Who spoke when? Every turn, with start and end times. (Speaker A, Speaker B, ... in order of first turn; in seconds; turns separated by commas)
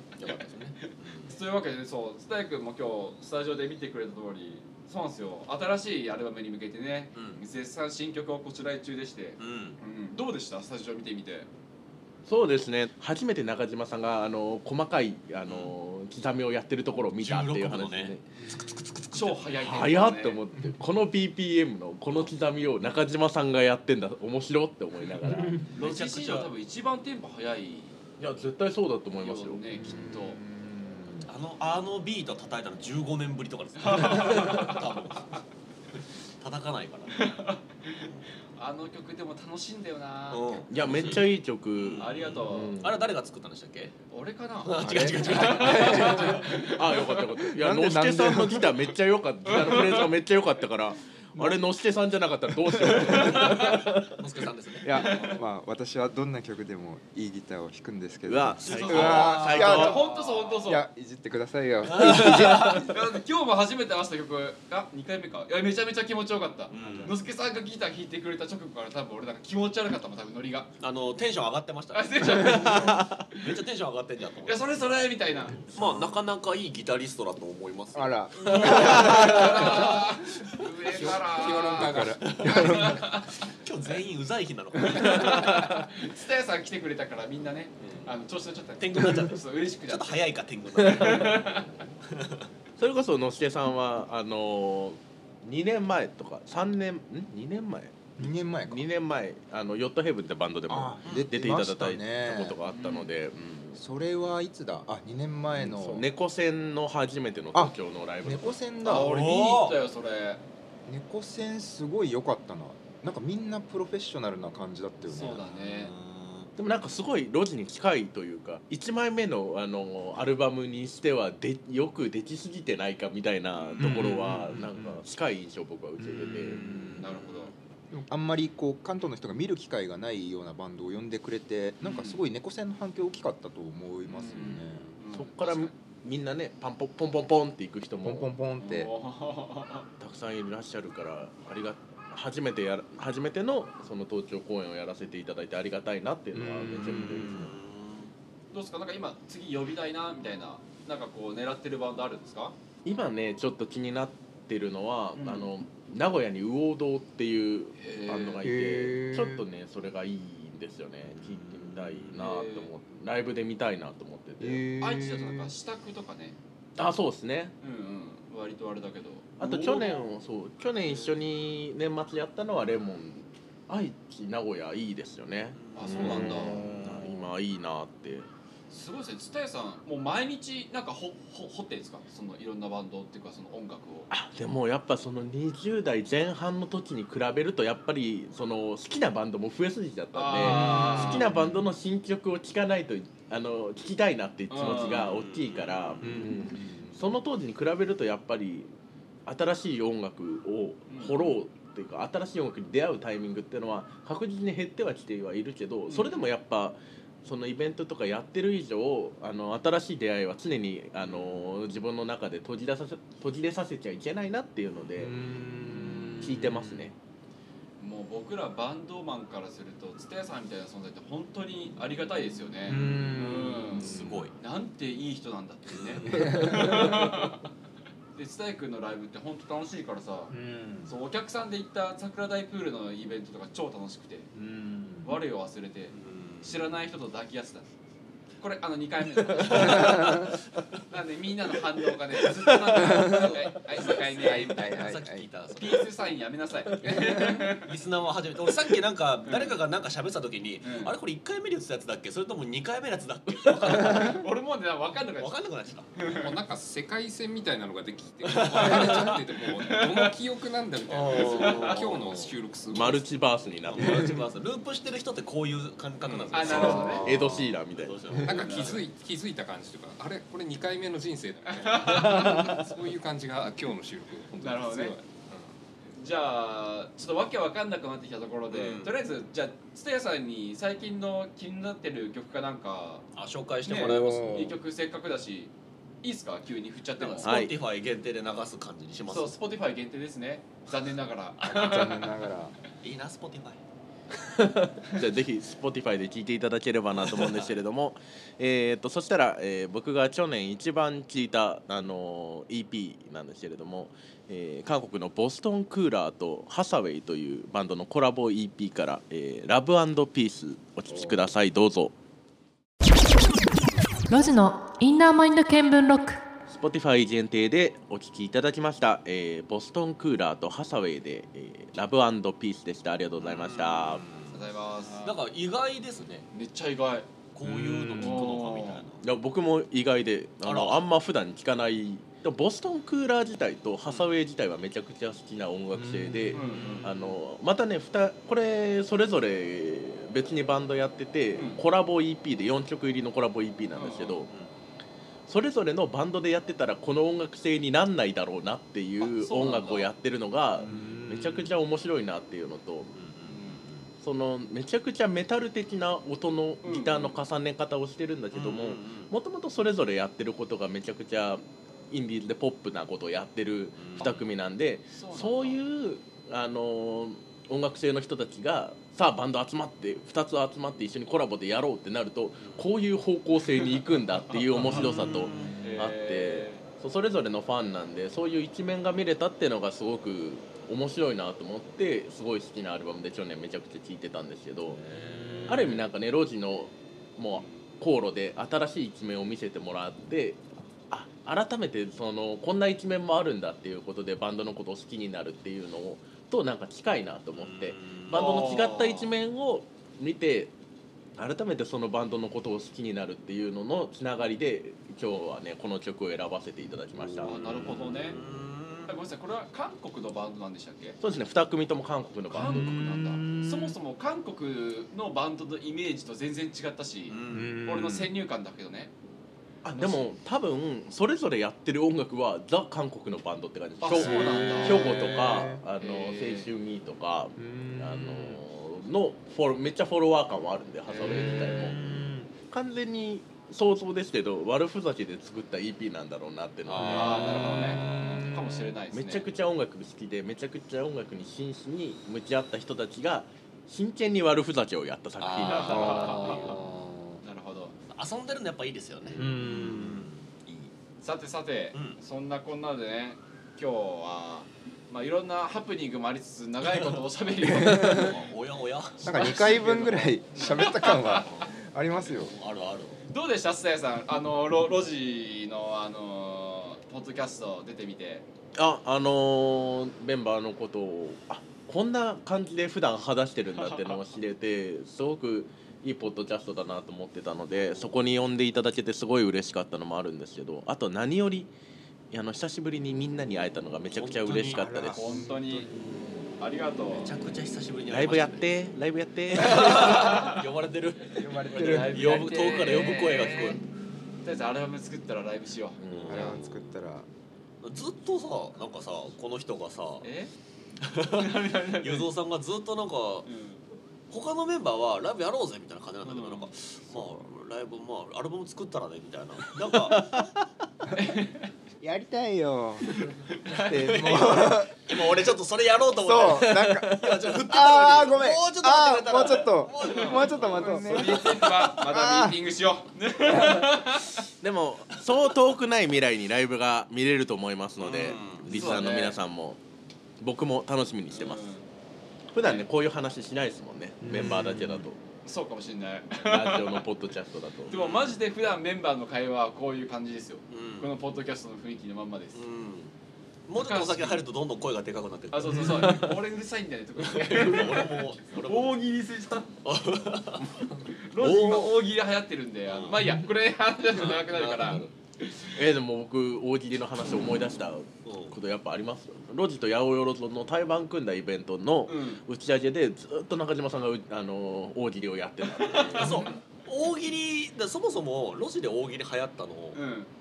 Speaker A: 0.1-1.3, Speaker B: 1.3-11.5, Speaker A: 7.1-7.4, Speaker A: 9.4-9.8, Speaker C: 12.2-18.3, Speaker A: 15.4-15.7, Speaker A: 17.2-19.6, Speaker B: 19.1-20.4, Speaker C: 19.6-25.7, Speaker B: 25.6-28.0, Speaker A: 25.7-26.5, Speaker C: 28.2-29.7, Speaker B: 29.2-30.4, Speaker D: 29.7-31.3, Speaker A: 31.2-35.4, Speaker B: 33.8-34.9, Speaker A: 36.4-37.2, Speaker B: 37.1-38.0, Speaker B: 38.6-40.7, Speaker A: 40.3-43.9, Speaker C: 40.7-43.1, Speaker B: 42.0-42.8, Speaker B: 44.1-47.3, Speaker A: 44.6-46.6, Speaker D: 44.8-46.4, Speaker C: 45.9-54.1, Speaker D: 47.6-48.7, Speaker B: 49.5-50.1, Speaker B: 53.0-53.9, Speaker A: 53.2-55.4, Speaker D: 54.8-60.0, Speaker B: 54.9-55.4, Speaker C: 58.3-60.0, Speaker A: 58.6-60.6, Speaker B: 58.7-60.9, Speaker D: 60.6-62.9, Speaker A: 61.9-62.2, Speaker B: 62.1-70.7, Speaker C: 62.1-62.9, Speaker A: 66.7-67.2, Speaker A: 70.8-74.9, Speaker B: 71.9-73.4, Speaker B: 74.4-75.7, Speaker A: 75.7-81.2, Speaker D: 77.9-79.8, Speaker B: 78.3-83.3, Speaker E: 80.9-82.5, Speaker D: 81.7-83.0, Speaker A: 82.2-85.8, Speaker B: 84.8-90.3, Speaker A: 87.8-88.1, Speaker A: 88.8-92.5, Speaker B: 90.8-91.7, Speaker C: 92.8-103.8, Speaker D: 98.2-98.9, Speaker D: 100.7-102.6, Speaker B: 102.7-103.1, Speaker D: 103.8-106.1, Speaker C: 105.5-108.7, Speaker D: 107.5-109.3, Speaker B: 108.8-110.4, Speaker A: 108.8-109.8, Speaker D: 110.8-115.4, Speaker B: 115.1-115.9, Speaker A: 115.4-116.5, Speaker C: 116.6-126.9, Speaker B: 123.6-123.9, Speaker D: 123.8-125.0, Speaker D: 126.0-127.0, Speaker A: 126.6-127.5, Speaker B: 126.6-127.5, Speaker D: 127.9-134.9, Speaker B: 131.8-132.2, Speaker B: 134.1-135.7, Speaker C: 135.1-138.3, Speaker D: 138.0-138.9, Speaker B: 138.6-139.9, Speaker C: 140.0-147.5, Speaker D: 146.3-147.5, Speaker A: 147.1-148.1, Speaker B: 148.5-152.5, Speaker C: 152.8-164.7, Speaker B: 155.2-155.5, Speaker B: 157.8-158.4, Speaker D: 158.4-159.4, Speaker A: 161.1-162.1, Speaker B: 162.1-162.7, Speaker D: 164.4-165.5, Speaker B: 164.8-166.4, Speaker C: 166.8-167.5, Speaker B: 167.6-170.1, Speaker C: 169.4-178.3, Speaker A: 175.5-176.7, Speaker B: 175.7-176.6, Speaker D: 176.0-177.1, Speaker B: 178.7-184.1, Speaker C: 184.1-198.7, Speaker B: 190.1-191.3, Speaker D: 190.4-191.7, Speaker B: 194.5-195.1, Speaker A: 194.6-196.2, Speaker D: 196.0-197.0, Speaker C: 199.2-215.2, Speaker B: 200.9-201.4, Speaker B: 205.9-206.2, Speaker A: 211.1-211.4, Speaker A: 214.8-215.1, Speaker D: 215.0-216.9, Speaker C: 215.8-216.9, Speaker B: 217.8-227.4, Speaker D: 222.7-224.2, Speaker C: 222.7-223.2, Speaker A: 223.7-224.3, Speaker A: 225.7-226.4, Speaker D: 226.0-227.2, Speaker B: 228.1-230.3, Speaker D: 230.3-230.9, Speaker B: 230.8-234.3, Speaker D: 234.3-235.1, Speaker B: 235.0-237.7, Speaker A: 235.9-236.7, Speaker B: 238.4-240.3, Speaker A: 239.4-240.3, Speaker D: 239.6-240.2, Speaker B: 240.9-245.0, Speaker D: 242.7-243.3, Speaker A: 242.8-246.0, Speaker D: 244.2-245.3, Speaker B: 245.5-247.7, Speaker A: 246.8-254.2, Speaker D: 246.9-247.5, Speaker B: 249.2-249.6, Speaker B: 250.6-250.9, Speaker B: 253.7-255.4, Speaker A: 255.2-255.9, Speaker B: 255.9-256.3, Speaker E: 256.0-263.1, Speaker A: 258.2-259.1, Speaker B: 258.6-259.0, Speaker B: 259.6-260.1, Speaker A: 260.9-262.3, Speaker B: 261.1-261.8, Speaker C: 262.7-264.1, Speaker A: 263.6-268.9, Speaker E: 266.0-266.7, Speaker B: 266.3-267.1, Speaker C: 266.5-268.1, Speaker D: 266.6-267.3, Speaker E: 268.2-275.5, Speaker B: 271.4-272.4, Speaker B: 274.4-275.0, Speaker B: 275.9-283.1, Speaker A: 278.5-279.0, Speaker A: 283.1-284.6, Speaker B: 283.6-285.5, Speaker D: 283.7-284.6, Speaker B: 286.0-287.3, Speaker A: 287.0-289.4, Speaker C: 287.2-287.6, Speaker B: 289.1-292.2, Speaker D: 291.4-292.6, Speaker A: 292.8-293.6, Speaker C: 294.2-311.9, Speaker A: 297.0-297.5, Speaker D: 310.9-311.2, Speaker F: 314.1-316.2, Speaker C: 316.5-324.1, Speaker A: 323.2-324.5, Speaker B: 324.3-325.2, Speaker A: 325.0-326.3, Speaker B: 326.3-327.1, Speaker A: 327.3-329.1, Speaker D: 327.4-328.3, Speaker B: 327.9-328.8, Speaker C: 329.0-344.3, Speaker A: 330.4-330.8, Speaker D: 335.7-336.9, Speaker B: 336.3-336.9, Speaker A: 336.4-337.1, Speaker B: 341.3-341.6, Speaker B: 343.7-344.2, Speaker C: 345.3-352.9, Speaker B: 349.0-349.9, Speaker D: 350.6-351.5, Speaker A: 352.9-353.9, Speaker B: 353.3-353.6, Speaker C: 354.0-384.8, Speaker B: 356.6-357.1, Speaker A: 358.3-359.1, Speaker A: 363.8-364.3, Speaker B: 364.9-365.6, Speaker A: 372.4-372.6, Speaker B: 374.5-374.9, Speaker A: 374.6-375.6, Speaker B: 375.6-376.6, Speaker A: 384.7-385.8, Speaker D: 385.1-385.7, Speaker C: 385.5-400.5, Speaker A: 397.4-398.3, Speaker B: 398.1-399.1, Speaker C: 401.2-407.3, Speaker A: 407.0-408.9, Speaker B: 407.2-408.2, Speaker B: 408.9-411.0, Speaker C: 411.0-412.9, Speaker B: 412.3-418.9, Speaker D: 412.4-413.8, Speaker A: 417.1-417.6, Speaker D: 417.3-418.1, Speaker C: 419.6-431.8, Speaker B: 419.7-420.1, Speaker B: 423.8-426.5, Speaker D: 423.9-425.6, Speaker D: 427.4-428.4, Speaker B: 430.9-431.7, Speaker D: 431.0-432.3, Speaker C: 432.3-438.2, Speaker A: 436.7-438.1, Speaker B: 436.8-439.2, Speaker D: 437.1-438.7, Speaker C: 438.9-446.3, Speaker A: 445.2-446.9, Speaker B: 445.4-446.6, Speaker D: 445.7-447.2, Speaker B: 447.2-447.8, Speaker A: 447.9-450.7, Speaker D: 449.1-450.1, Speaker B: 451.0-458.1, Speaker A: 451.7-452.0, Speaker D: 457.4-458.2, Speaker A: 457.6-460.0, Speaker D: 459.0-462.3, Speaker B: 459.0-461.3, Speaker A: 461.1-463.0, Speaker B: 463.1-468.2, Speaker C: 468.5-481.5, Speaker B: 473.6-473.9, Speaker C: 482.1-485.2, Speaker A: 483.9-484.7, Speaker D: 484.5-486.3, Speaker B: 484.9-485.7, Speaker B: 486.4-487.1, Speaker A: 486.9-488.6, Speaker C: 487.9-490.1, Speaker A: 489.3-493.6, Speaker B: 489.5-490.4, Speaker D: 491.1-492.2, Speaker B: 491.5-493.6, Speaker C: 492.2-493.0, Speaker B: 494.2-496.4, Speaker C: 495.8-496.5, Speaker A: 495.9-496.4, Speaker D: 496.0-497.1, Speaker A: 497.6-500.1, Speaker B: 500.0-500.3, Speaker A: 500.8-503.3, Speaker B: 500.9-502.1, Speaker B: 503.2-503.6, Speaker A: 504.1-510.2, Speaker B: 506.0-506.5, Speaker D: 506.9-507.3, Speaker D: 509.8-510.4, Speaker B: 510.9-511.5, Speaker D: 511.8-514.7, Speaker B: 513.4-514.5, Speaker A: 514.0-521.4, Speaker D: 516.0-522.4, Speaker B: 519.9-524.2, Speaker C: 524.4-529.6, Speaker A: 527.8-528.9, Speaker B: 528.5-529.2, Speaker C: 530.2-531.5, Speaker B: 531.1-531.6, Speaker C: 532.3-535.0, Speaker B: 532.4-532.7, Speaker D: 534.0-534.8, Speaker A: 534.1-534.6, Speaker B: 535.2-536.8, Speaker C: 536.1-537.7, Speaker B: 537.7-542.4, Speaker A: 537.7-538.2, Speaker A: 540.5-540.9, Speaker A: 542.3-542.9, Speaker A: 543.5-546.0, Speaker B: 543.5-544.2, Speaker B: 545.3-549.6, Speaker C: 545.6-546.1, Speaker A: 547.0-548.8, Speaker A: 549.6-550.5, Speaker E: 550.4-550.9, Speaker B: 550.9-555.6, Speaker C: 551.2-551.8, Speaker A: 552.6-553.1, Speaker A: 553.9-554.9, Speaker C: 555.5-566.3, Speaker A: 558.0-558.4, Speaker B: 561.9-562.2, Speaker B: 565.6-566.3, Speaker A: 565.6-569.8, Speaker B: 569.7-570.1